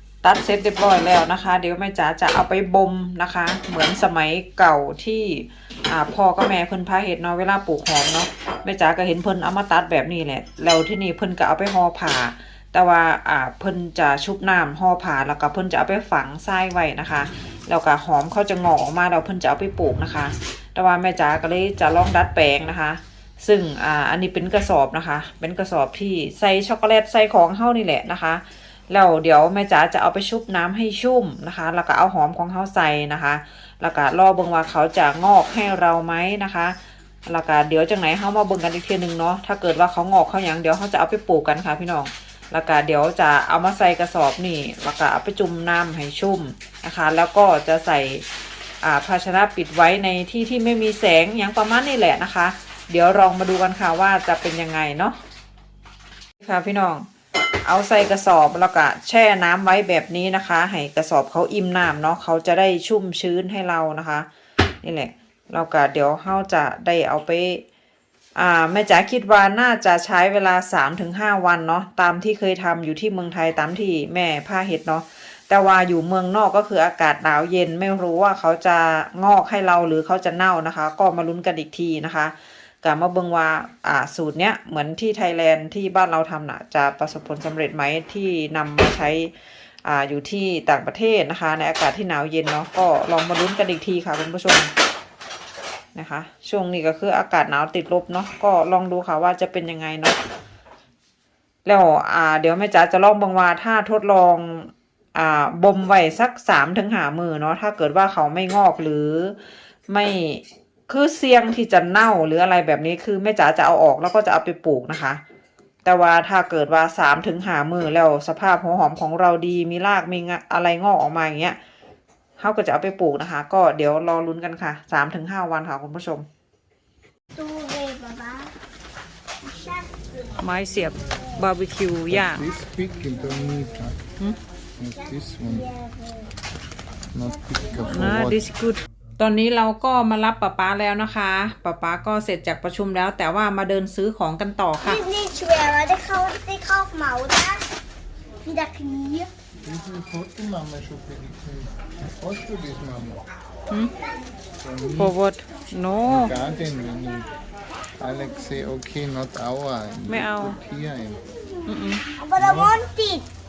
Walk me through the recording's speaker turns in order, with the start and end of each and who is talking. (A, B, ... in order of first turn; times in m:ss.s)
0:00.2-0:48.2 A
0:48.8-0:55.2 A
0:56.4-0:57.0 A
0:57.6-1:04.3 A
1:04.8-1:07.6 A
1:08.4-1:29.3 A
1:29.8-1:34.7 A
1:35.9-1:40.2 A
1:41.6-1:49.4 A
1:49.9-1:55.2 A
1:55.8-2:01.6 A
2:02.4-2:06.2 A
2:07.3-2:08.5 B
2:09.4-2:10.4 B
2:10.4-2:12.4 A
2:12.1-2:14.0 C
2:14.8-2:15.7 C
2:15.3-2:16.3 B
2:17.1-2:18.4 C
2:17.9-2:25.0 A
2:24.8-2:27.6 B
2:28.4-2:29.3 B
2:29.6-2:33.2 C
2:34.6-2:35.1 C
2:35.0-2:36.3 A
2:36.0-2:37.3 C
2:38.0-2:41.3 C
2:40.1-2:40.6 A
2:41.6-2:42.0 A
2:42.1-2:43.2 B
2:42.4-2:42.8 C